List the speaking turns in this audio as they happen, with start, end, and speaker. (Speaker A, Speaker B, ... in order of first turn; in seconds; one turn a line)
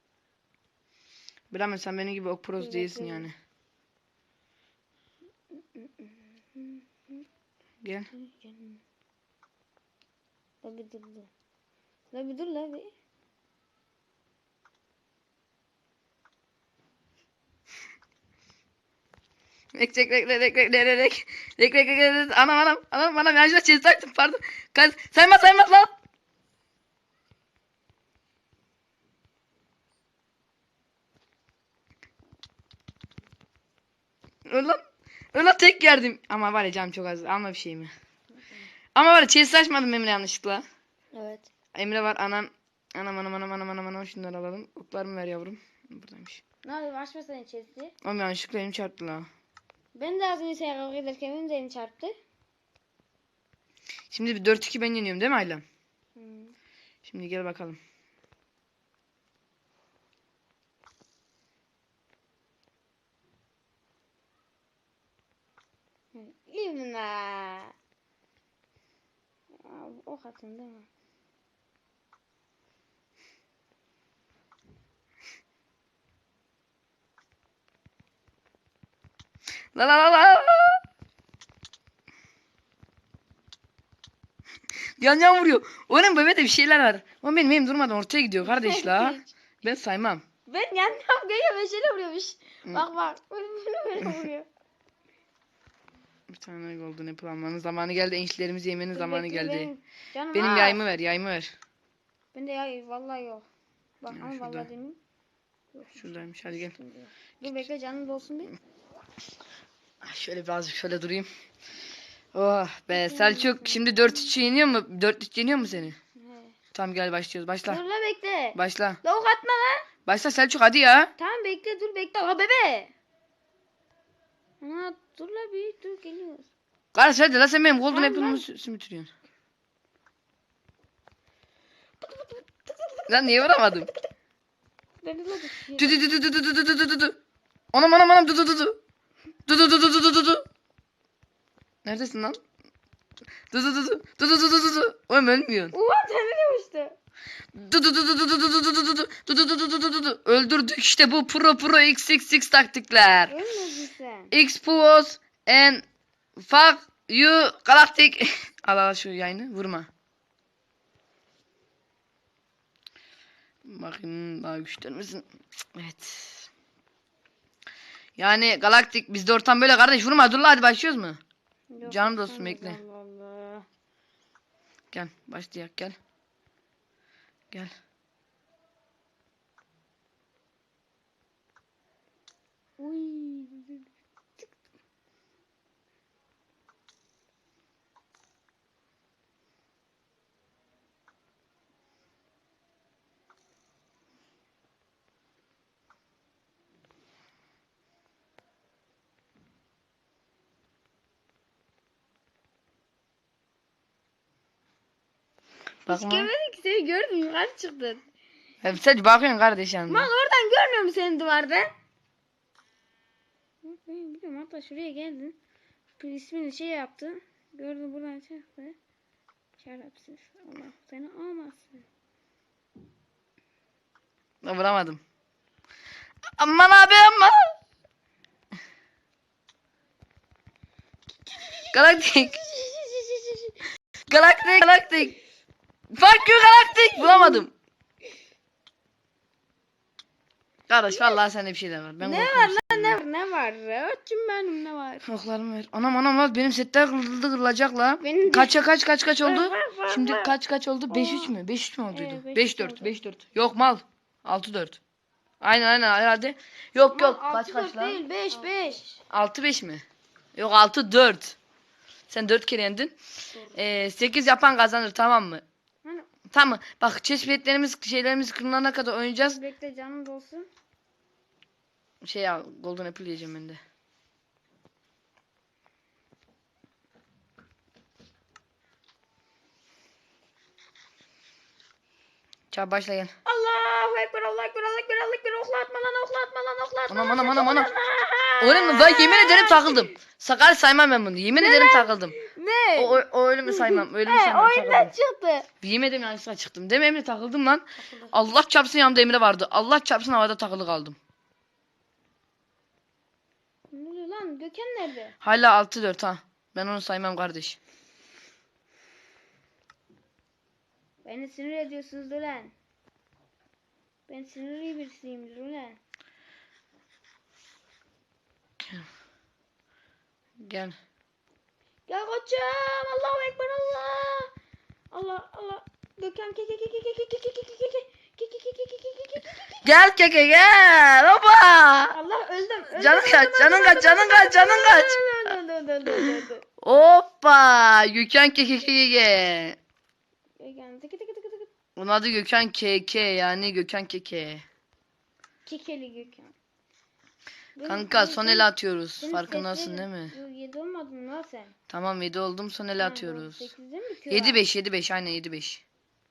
Speaker A: 1.5-3.3
Speaker B: 2.6-3.3
Speaker B: 5.7-7.2
Speaker A: 7.8-8.1
Speaker B: 8.1-8.8
Speaker B: 10.6-11.3
Speaker B: 12.1-12.9
Speaker A: 19.7-25.9
Speaker A: 34.5-34.8
Speaker A: 35.3-37.9
Speaker A: 38.9-40.6
Speaker B: 41.1-41.5
Speaker A: 41.7-46.4
Speaker B: 46.6-47.9
Speaker A: 48.0-49.3
Speaker B: 49.9-52.2
Speaker A: 54.1-55.6
Speaker B: 56.1-56.5
Speaker A: 57.0-57.8
Speaker B: 66.1-67.7
Speaker B: 69.5-70.9
Speaker A: 79.7-80.8
Speaker A: 85.0-90.2
Speaker B: 88.4-89.3
Speaker B: 90.5-94.5
Speaker A: 94.0-94.3
Speaker A: 96.3-99.7
Speaker B: 98.9-100.8
Speaker A: 100.3-101.5
Speaker B: 102.3-103.5
Speaker B: 104.0-105.0
Speaker A: 104.1-104.7
Speaker B: 105.7-108.5
Speaker A: 106.0-106.7
Speaker A: 110.0-111.3
Speaker A: 112.3-116.0
Speaker B: 112.9-114.3
Speaker B: 116.2-116.5
Speaker A: 116.7-117.8
Speaker B: 117.7-119.9
Speaker A: 118.5-119.0
Speaker A: 120.0-121.1
Speaker B: 121.2-122.9
Speaker B: 124.6-126.5
Speaker A: 126.9-129.1
Speaker B: 127.9-128.4
Speaker B: 132.0-133.8
Speaker A: 133.1-133.9
Speaker B: 135.0-136.0
Speaker A: 135.8-137.2
Speaker A: 137.7-138.8
Speaker A: 139.5-140.4
Speaker A: 141.8-142.4
Speaker A: 143.5-145.8
Speaker B: 145.7-147.0
Speaker A: 147.5-153.4
Speaker B: 153.3-154.3
Speaker A: 154.3-155.8
Speaker A: 156.4-159.9
Speaker A: 163.6-166.5
Speaker A: 168.2-171.2
Speaker B: 171.7-173.7
Speaker A: 171.8-172.8
Speaker A: 174.9-175.9
Speaker B: 182.8-183.8
Speaker A: 205.8-206.3
Speaker B: 205.9-208.0
Speaker A: 208.6-210.1
Speaker B: 209.9-211.7
Speaker B: 213.6-215.3
Speaker B: 216.0-218.7
Speaker B: 219.6-221.8
Speaker A: 224.4-225.0
Speaker A: 226.4-227.5
Speaker B: 231.3-233.6
Speaker A: 231.7-232.4
Speaker A: 234.1-235.2
Speaker A: 235.9-237.5
Speaker B: 236.2-237.4
Speaker A: 240.7-243.0
Speaker B: 240.9-241.2
Speaker B: 242.0-245.0
Speaker A: 245.0-254.8
Speaker B: 248.0-248.6
Speaker B: 249.2-250.3
Speaker B: 250.9-251.3
Speaker B: 251.9-252.9
Speaker A: 255.4-258.0
Speaker B: 256.8-259.0
Speaker A: 259.1-259.8
Speaker A: 260.3-261.4
Speaker A: 262.1-262.9
Speaker B: 263.3-263.6
Speaker A: 263.5-265.4
Speaker B: 265.8-266.1
Speaker A: 266.3-269.4
Speaker B: 269.2-270.5
Speaker A: 272.0-273.6
Speaker A: 282.5-283.1
Speaker B: 283.2-289.9
Speaker A: 286.9-287.7
Speaker A: 288.4-292.1
Speaker B: 291.3-295.5
Speaker A: 292.7-294.9
Speaker A: 295.6-301.0
Speaker B: 297.8-298.1
Speaker B: 303.7-305.1
Speaker A: 305.2-307.6
Speaker B: 311.0-312.5
Speaker B: 314.1-315.8
Speaker A: 318.6-318.9
Speaker A: 320.4-320.8
Speaker B: 321.9-324.3
Speaker B: 324.9-329.6
Speaker A: 329.6-331.9
Speaker B: 331.9-336.4
Speaker A: 332.7-335.0
Speaker A: 335.9-339.6
Speaker B: 340.4-341.5
Speaker A: 341.8-344.4
Speaker B: 345.4-346.3
Speaker B: 347.6-351.5
Speaker A: 347.6-350.1
Speaker A: 351.7-353.5
Speaker B: 352.8-354.4
Speaker A: 354.1-355.6